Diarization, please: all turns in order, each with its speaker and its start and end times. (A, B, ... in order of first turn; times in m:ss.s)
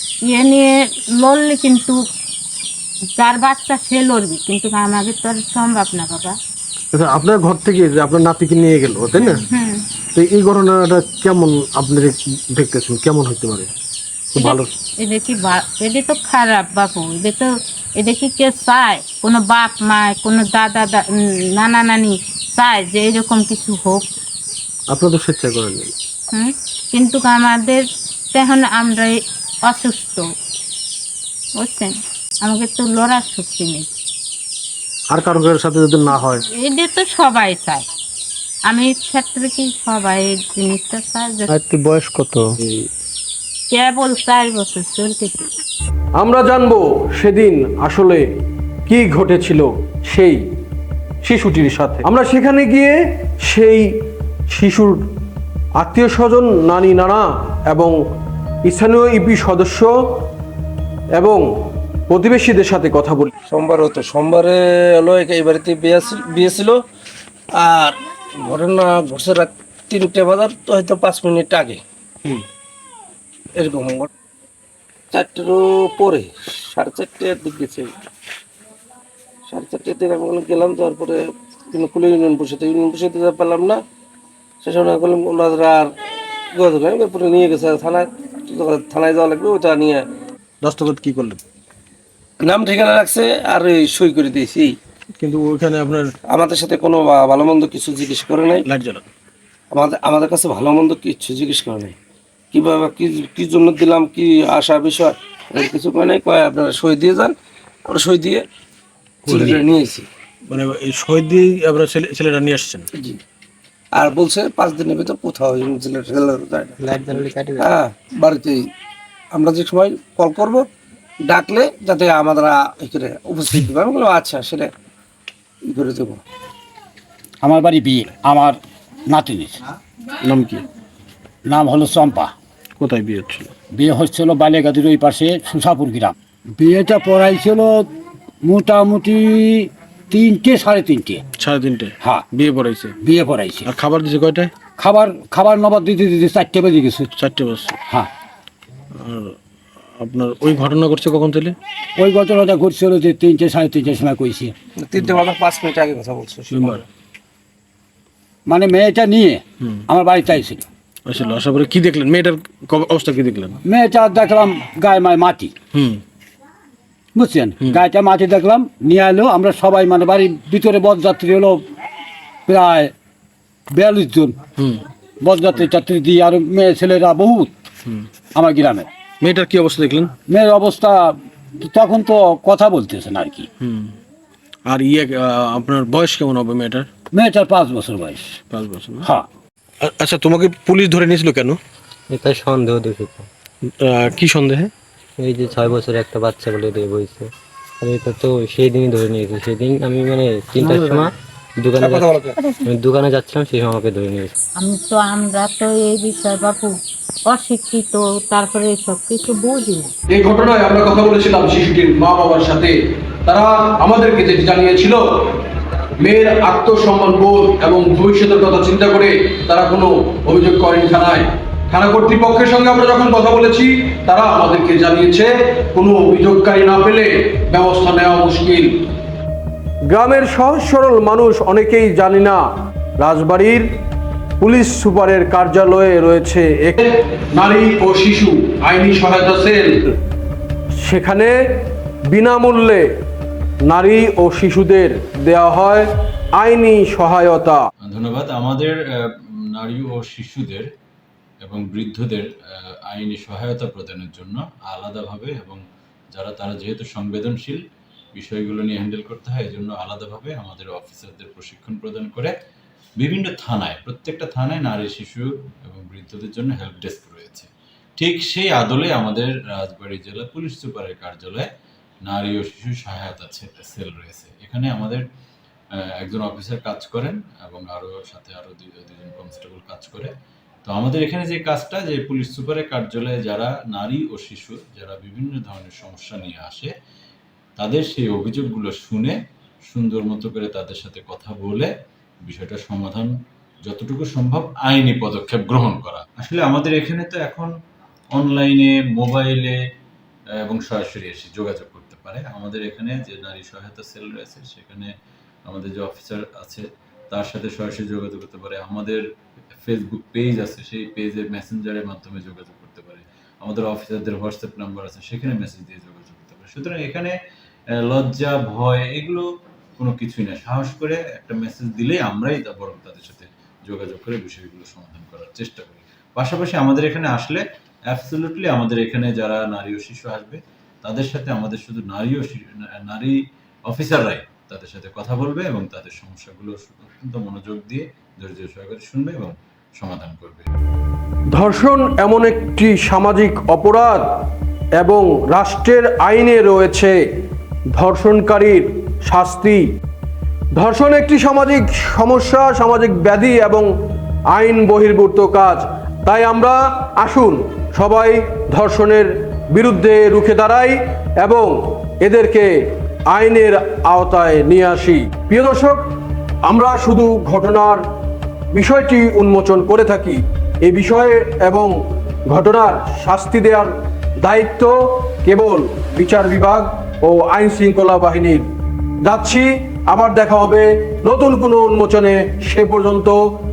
0:00.2-0:02.0 A
0:03.2-0:06.4 A
0:06.9-0:09.4 B
0:09.5-0:09.8 A
0:10.2-0:13.7 B
0:14.4-0:14.7 B
0:14.4-0:24.1 A
0:24.9-0:25.9 B
0:26.3-0:30.2 A
0:31.6-0:33.9 A
0:35.1-0:36.4 B
0:36.1-0:37.9 A
0:38.7-0:41.6 A
0:43.7-0:45.5 A
0:46.2-0:48.2 C
0:48.9-0:50.4 C
0:51.2-0:52.9 C
0:53.5-0:53.8 C
0:54.5-0:55.0 C
0:55.8-0:57.9 C
0:58.7-0:59.9 C
1:01.2-1:01.4 C
1:02.1-1:03.3 C
1:03.5-1:06.8 D
1:07.6-1:12.3 D
1:13.6-1:14.1 D
1:15.1-1:17.9 D
1:19.5-1:23.8 D
1:24.6-1:25.9 D
1:26.5-1:30.1 D
1:30.6-1:31.4 B
1:32.4-1:34.7 D
1:35.2-1:36.1 B
1:36.2-1:38.7 D
1:38.7-1:39.0 B
1:39.7-1:42.0 D
1:42.5-1:48.4 D
1:49.3-1:49.6 B
1:49.3-1:50.1 D
1:50.5-1:52.9 B
1:54.0-1:58.6 D
1:56.8-1:57.7 E
1:59.3-2:00.6 D
2:01.3-2:04.7 D
2:05.7-2:06.2 D
2:07.4-2:08.6 F
2:09.1-2:09.6 F
2:10.2-2:10.6 B
2:11.5-2:12.3 F
2:12.8-2:13.5 B
2:13.8-2:17.9 F
2:18.4-2:21.2 F
2:21.4-2:23.0 B
2:23.0-2:23.7 F
2:23.6-2:24.5 B
2:24.8-2:27.1 F
2:27.2-2:27.7 B
2:29.0-2:29.4 B
2:30.0-2:31.6 B
2:32.0-2:34.5 F
2:34.8-2:36.8 D
2:35.0-2:35.2 B
2:36.5-2:36.8 B
2:38.5-2:40.6 F
2:41.1-2:43.6 B
2:43.7-2:45.5 F
2:45.7-2:46.0 B
2:47.2-2:51.6 F
2:52.5-2:52.9 F
2:53.8-2:54.4 F
2:55.2-2:57.5 F
2:58.4-2:58.9 F
2:59.2-3:00.1 B
3:00.3-3:03.5 F
3:03.6-3:04.0 B
3:04.7-3:06.9 B
3:07.1-3:08.4 F
3:08.5-3:09.1 B
3:09.8-3:11.6 B
3:12.1-3:13.3 E
3:13.8-3:14.7 B
3:15.2-3:17.3 E
3:17.8-3:24.3 E
3:20.7-3:21.1 D
3:21.8-3:22.3 D
3:24.6-3:26.8 A
3:27.3-3:29.9 A
3:30.1-3:32.7 C
3:33.3-3:35.0 C
3:36.0-3:48.7 C
3:49.9-3:52.4 C
3:53.0-3:53.7 C
3:54.4-3:56.8 C
3:57.4-3:59.7 C
4:00.8-4:01.3 C
4:02.1-4:02.9 C
4:03.7-4:05.8 C
4:06.4-4:07.6 C
4:07.9-4:10.7 G
4:11.4-4:12.3 G
4:12.9-4:15.6 G
4:16.1-4:17.6 G
4:18.2-4:22.3 G
4:23.0-4:31.5 G
4:32.0-4:35.0 G
4:36.0-4:40.1 G
4:40.6-4:46.7 G
4:47.6-4:49.2 G
4:49.7-4:51.7 G
4:52.2-4:53.1 G
4:53.6-4:57.5 G
4:58.1-4:59.6 G
5:00.4-5:04.9 G
5:05.5-5:09.0 G
5:09.6-5:17.1 G
5:17.8-5:19.3 G
5:19.8-5:40.5 G
5:41.3-5:44.0 C
5:44.8-5:47.0 C
5:47.7-5:49.6 C
5:50.6-5:53.7 C
5:54.3-6:02.5 C
6:03.1-6:05.8 C
6:06.5-6:07.8 C
6:08.5-6:11.7 C
6:12.3-6:13.7 C
6:14.2-6:14.7 C
6:15.2-6:18.4 C
6:19.0-6:23.2 C